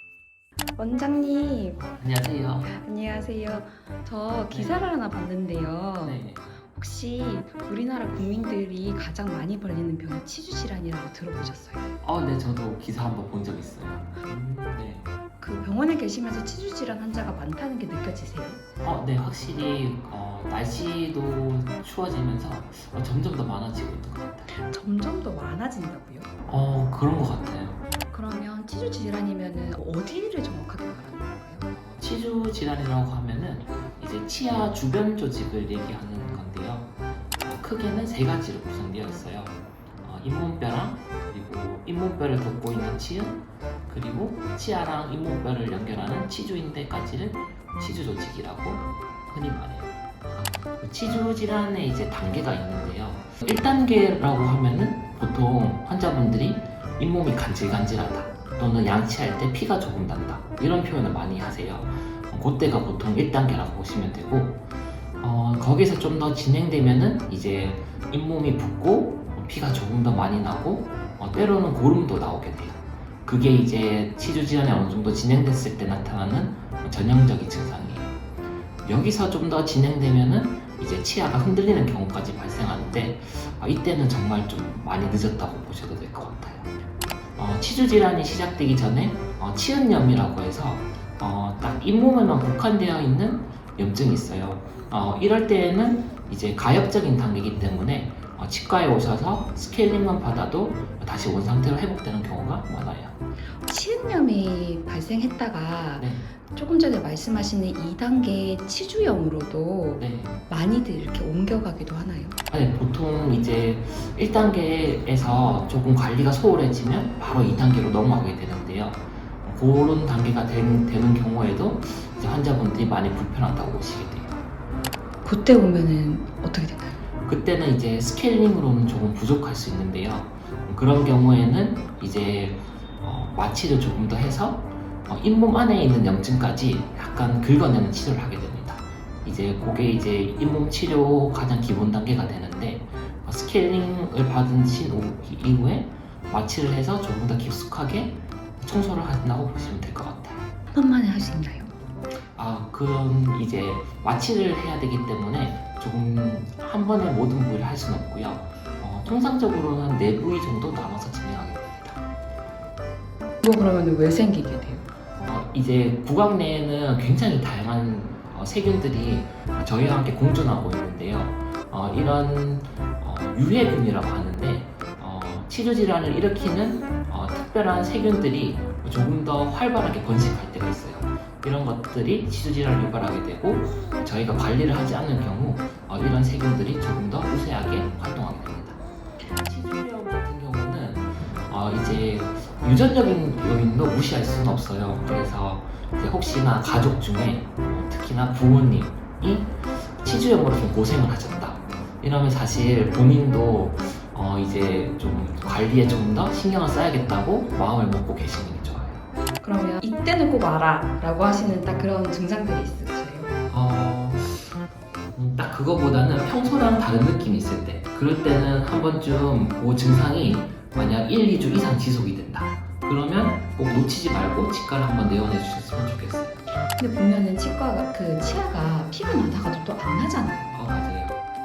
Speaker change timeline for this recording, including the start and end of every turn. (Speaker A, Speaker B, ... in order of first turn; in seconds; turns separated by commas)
Speaker A: 0.8-1.9, Speaker B: 1.8-2.7, Speaker A: 2.6-11.8, Speaker B: 4.5-4.8, Speaker B: 6.0-6.5, Speaker B: 12.0-15.1, Speaker A: 15.4-18.6, Speaker B: 18.8-24.5, Speaker A: 24.5-26.3, Speaker B: 26.5-27.8, Speaker A: 28.1-31.7, Speaker B: 31.7-64.7, Speaker B: 65.2-78.2, Speaker B: 78.8-86.7, Speaker B: 87.4-103.2, Speaker A: 103.6-112.4, Speaker B: 106.0-106.3, Speaker B: 110.0-110.3, Speaker B: 112.5-124.4, Speaker A: 125.2-127.0, Speaker B: 127.2-150.5, Speaker A: 150.7-151.7, Speaker B: 152.3-162.0, Speaker A: 163.4-164.9, Speaker B: 165.2-209.1, Speaker A: 209.4-213.3, Speaker B: 213.5-226.5, Speaker A: 226.8-230.6, Speaker B: 230.5-231.2